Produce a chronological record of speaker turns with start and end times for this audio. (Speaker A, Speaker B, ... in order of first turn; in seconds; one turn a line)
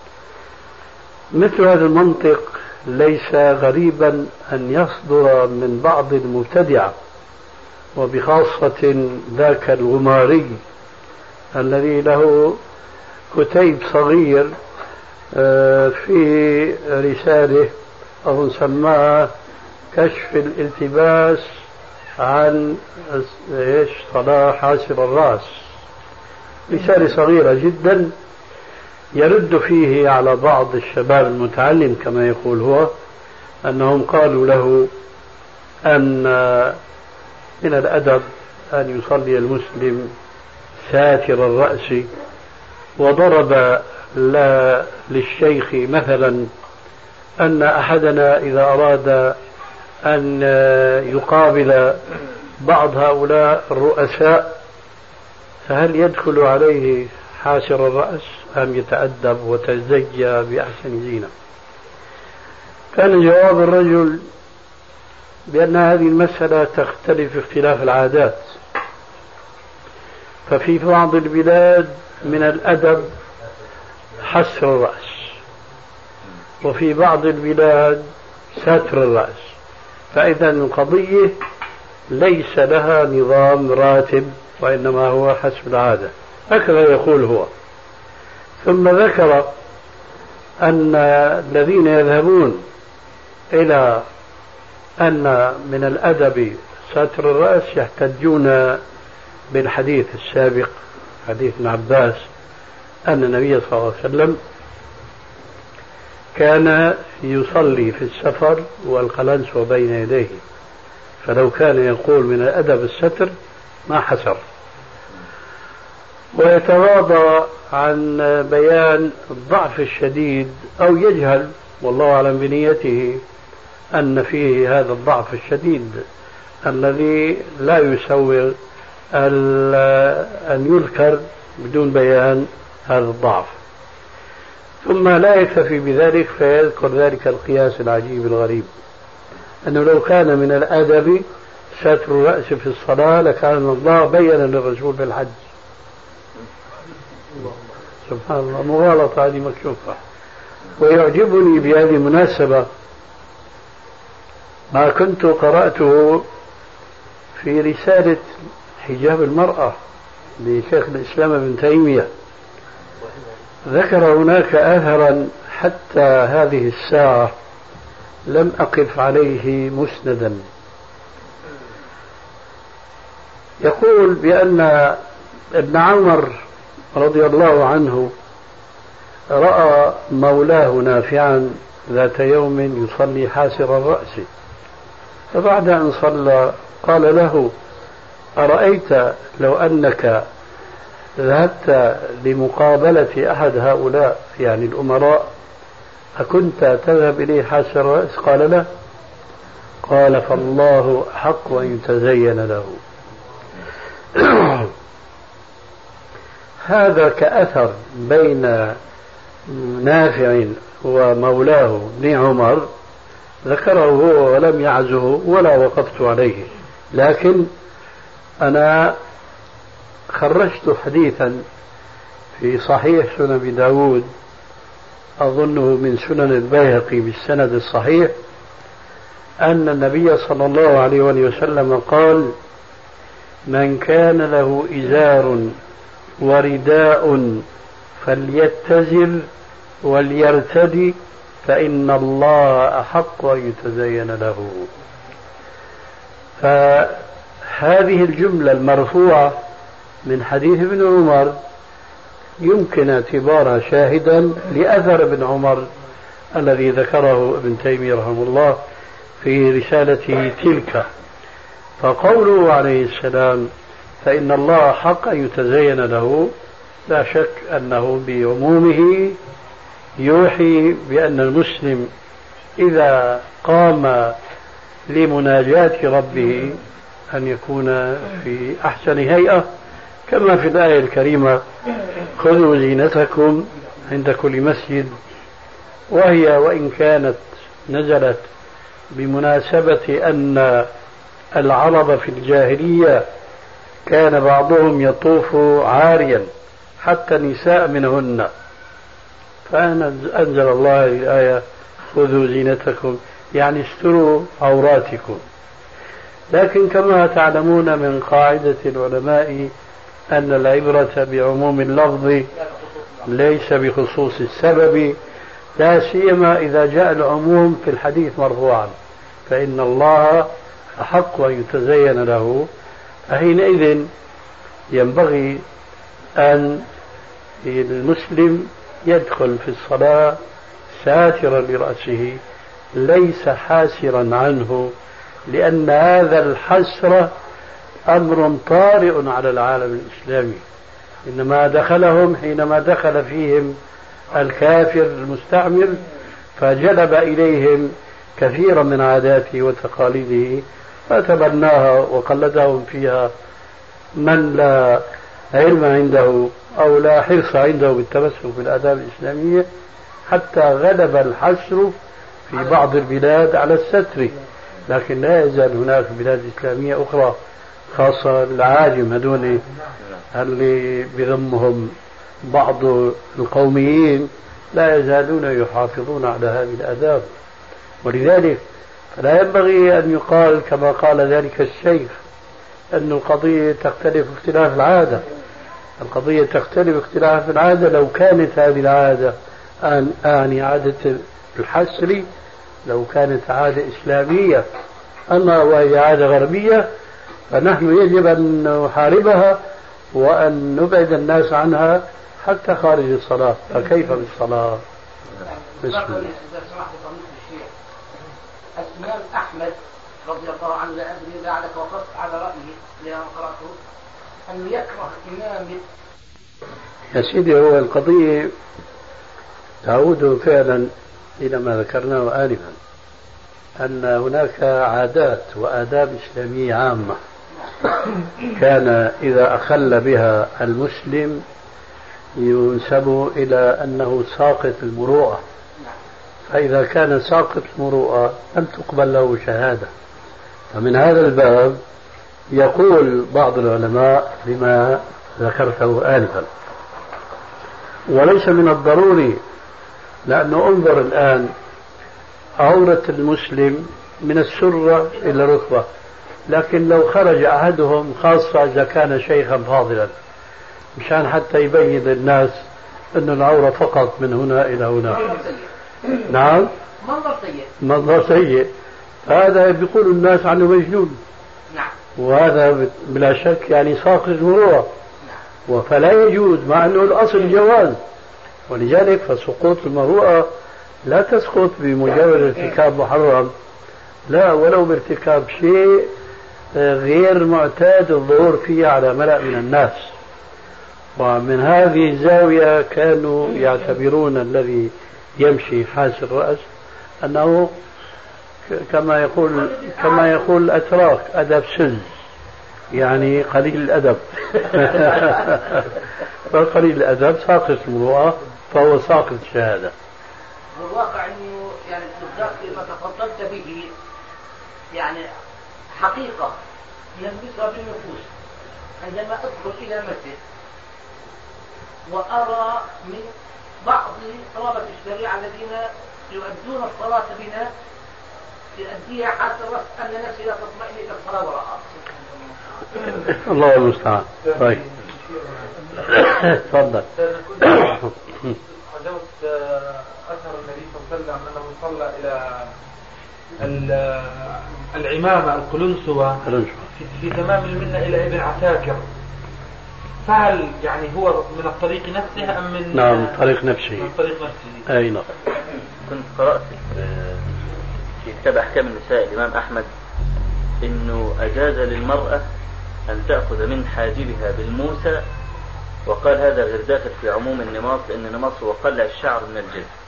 Speaker A: 1.3-6.9
Speaker A: 7.9-10.6
Speaker A: 11.5-12.6
Speaker A: 13.3-14.5
Speaker A: 15.3-19.3
Speaker A: 19.9-21.5
Speaker A: 22.2-25.6
Speaker A: 26.7-28.1
Speaker A: 29.1-32.9
Speaker A: 33.6-34.9
Speaker A: 35.8-36.8
Speaker A: 37.6-40.1
Speaker A: 40.8-42.1
Speaker A: 43.0-46.5
Speaker A: 47.4-49.4
Speaker A: 50.0-52.0
Speaker A: 52.6-54.6
Speaker A: 55.6-61.3
Speaker A: 62.9-64.2
Speaker A: 65.5-68.5
Speaker A: 70.5-73.1
Speaker A: 74.2-75.4
Speaker A: 76.6-79.5
Speaker A: 80.1-81.4
Speaker A: 82.1-87.5
Speaker A: 88.6-89.5
Speaker A: 90.6-92.6
Speaker A: 93.5-94.0
Speaker A: 95.0-98.8
Speaker A: 99.5-102.3
Speaker A: 103.0-104.4
Speaker A: 106.3-110.4
Speaker A: 111.2-113.3
Speaker A: 113.9-114.4
Speaker A: 116.3-123.2
Speaker A: 123.9-126.0
Speaker A: 126.6-128.6
Speaker A: 129.1-133.5
Speaker A: 134.8-138.7
Speaker A: 139.6-145.4
Speaker A: 148.1-150.0
Speaker A: 150.8-152.7
Speaker A: 154.7-156.3
Speaker A: 157.4-159.8
Speaker A: 160.4-162.1
Speaker A: 163.6-167.3
Speaker A: 168.3-170.4
Speaker A: 173.6-175.0
Speaker A: 175.5-176.4
Speaker A: 176.9-178.1
Speaker A: 179.3-184.3
Speaker A: 185.3-187.5
Speaker A: 188.4-190.2
Speaker A: 191.2-195.3
Speaker A: 196.2-198.7
Speaker A: 199.8-202.8
Speaker A: 204.1-204.7
Speaker A: 206.6-208.8
Speaker A: 209.5-212.7
Speaker A: 213.4-217.5
Speaker A: 218.4-219.0
Speaker A: 220.1-221.4
Speaker A: 222.4-224.1
Speaker A: 225.2-228.2
Speaker A: 229.4-232.3
Speaker A: 233.5-235.6
Speaker A: 236.2-237.5
Speaker A: 238.0-239.3
Speaker A: 239.8-244.7
Speaker A: 246.4-249.4
Speaker A: 250.1-251.4
Speaker A: 252.4-255.7
Speaker A: 256.3-258.6
Speaker A: 259.2-260.9
Speaker A: 261.8-266.3
Speaker A: 266.9-269.2
Speaker A: 270.0-271.9
Speaker A: 272.6-274.2
Speaker A: 274.9-279.5
Speaker A: 280.1-281.4
Speaker A: 282.1-284.9
Speaker A: 285.9-288.3
Speaker A: 288.9-290.7
Speaker A: 291.3-293.1
Speaker A: 293.9-298.3
Speaker A: 299.4-305.2
Speaker A: 306.3-309.5
Speaker A: 310.1-312.3
Speaker A: 313.1-315.0
Speaker A: 315.6-318.8
Speaker A: 319.3-322.5
Speaker A: 323.1-323.9
Speaker A: 324.7-325.4
Speaker A: 326.2-326.7
Speaker A: 327.4-330.2
Speaker A: 330.7-332.2
Speaker A: 332.7-334.7
Speaker A: 335.3-337.1
Speaker A: 337.9-340.4
Speaker A: 341.1-343.6
Speaker A: 344.1-345.8
Speaker A: 346.4-353.1
Speaker A: 353.9-359.5
Speaker A: 360.1-361.8
Speaker A: 362.3-367.2
Speaker A: 367.7-369.4
Speaker A: 370.1-377.1
Speaker A: 377.8-381.9
Speaker A: 382.7-385.1
Speaker A: 385.8-392.1
Speaker A: 392.6-394.4
Speaker A: 395.1-396.7
Speaker A: 397.3-404.6
Speaker B: 405.2-407.5
Speaker A: 405.6-406.1
Speaker B: 408.6-413.6
Speaker B: 414.2-415.6
Speaker A: 416.9-418.3
Speaker A: 419.6-422.6
Speaker A: 423.6-427.0
Speaker A: 428.3-431.2
Speaker A: 432.2-435.2
Speaker A: 436.3-439.7
Speaker A: 440.5-441.6
Speaker A: 442.3-446.3
Speaker A: 447.9-449.2
Speaker A: 450.1-451.3
Speaker A: 452.4-455.7
Speaker A: 456.3-459.9
Speaker A: 460.8-462.4
Speaker A: 462.9-465.1
Speaker B: 464.9-465.5
Speaker A: 466.1-466.5
Speaker B: 466.8-467.5
Speaker A: 467.6-468.5
Speaker A: 469.0-471.0
Speaker A: 471.9-474.7
Speaker A: 475.5-477.8
Speaker A: 478.5-480.3
Speaker A: 480.8-483.3
Speaker A: 484.1-485.9
Speaker A: 486.5-489.9
Speaker A: 490.9-496.5
Speaker A: 497.0-497.6
Speaker A: 498.5-501.9
Speaker A: 502.7-505.7
Speaker A: 506.3-509.7
Speaker B: 510.6-513.7
Speaker B: 514.7-515.0
Speaker B: 515.8-516.4
Speaker B: 516.9-518.1
Speaker B: 518.8-520.2
Speaker B: 521.9-523.1
Speaker B: 523.6-527.5
Speaker B: 528.6-531.6
Speaker A: 533.0-534.6
Speaker C: 534.2-536.4
Speaker A: 536.0-536.9
Speaker C: 536.9-542.5
Speaker C: 543.4-548.9
Speaker A: 546.2-546.7
Speaker C: 550.0-553.2
Speaker A: 552.7-553.9
Speaker C: 553.8-554.6
Speaker A: 554.7-555.1
Speaker D: 555.8-557.2
Speaker D: 558.0-559.7
Speaker D: 560.6-562.2
Speaker D: 562.9-565.0
Speaker D: 565.9-569.7